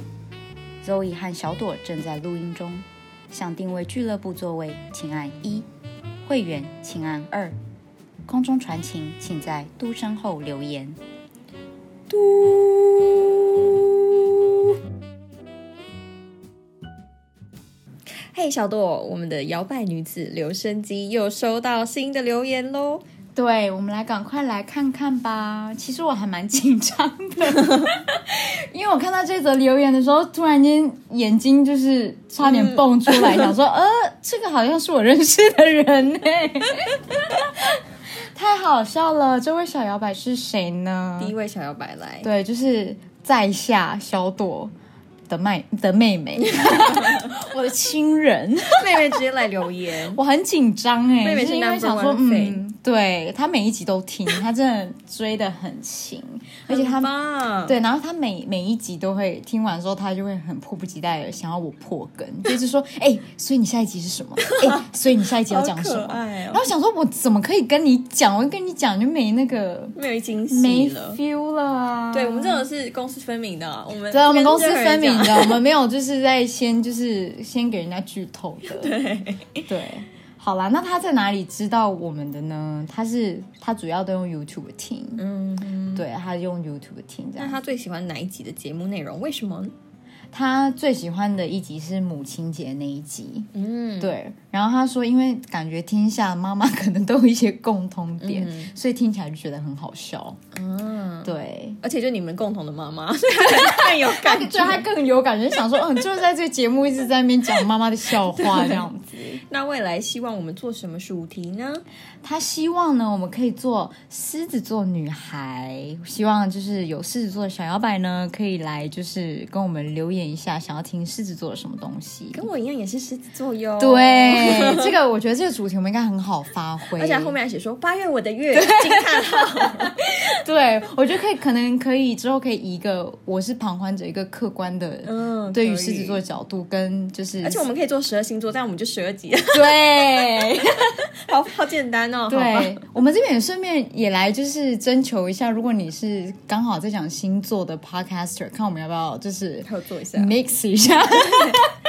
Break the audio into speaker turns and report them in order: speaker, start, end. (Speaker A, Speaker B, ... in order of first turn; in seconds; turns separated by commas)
Speaker A: 0.8-5.7, Speaker A: 6.2-7.6, Speaker A: 8.3-11.0, Speaker B: 12.1-14.6, Speaker B: 18.2-23.0, Speaker A: 23.4-37.8, Speaker B: 32.4-33.5, Speaker A: 38.3-41.3, Speaker B: 41.2-42.3, Speaker A: 42.2-44.7, Speaker A: 45.3-49.2, Speaker B: 46.5-47.3, Speaker B: 48.7-50.2, Speaker A: 50.1-57.1, Speaker B: 51.2-52.6, Speaker B: 56.7-57.8, Speaker A: 57.6-70.0, Speaker B: 64.5-66.7, Speaker B: 70.0-71.2, Speaker A: 70.5-72.7, Speaker B: 72.1-75.6, Speaker A: 74.1-79.0, Speaker B: 78.7-79.6, Speaker A: 79.7-85.2, Speaker B: 85.2-86.0, Speaker A: 85.9-87.6, Speaker B: 87.4-89.7, Speaker A: 90.3-93.5, Speaker B: 93.5-94.2, Speaker A: 94.0-100.4, Speaker B: 98.2-98.7, Speaker B: 100.5-104.9, Speaker A: 101.2-101.8, Speaker A: 103.5-109.4, Speaker B: 108.1-111.8, Speaker A: 112.2-122.5, Speaker B: 122.3-124.9, Speaker A: 123.8-127.4, Speaker B: 126.9-129.9, Speaker A: 128.5-137.7, Speaker B: 135.0-136.2, Speaker B: 137.4-142.8, Speaker A: 139.5-140.9, Speaker A: 142.3-151.7, Speaker B: 149.6-150.3, Speaker B: 151.2-151.6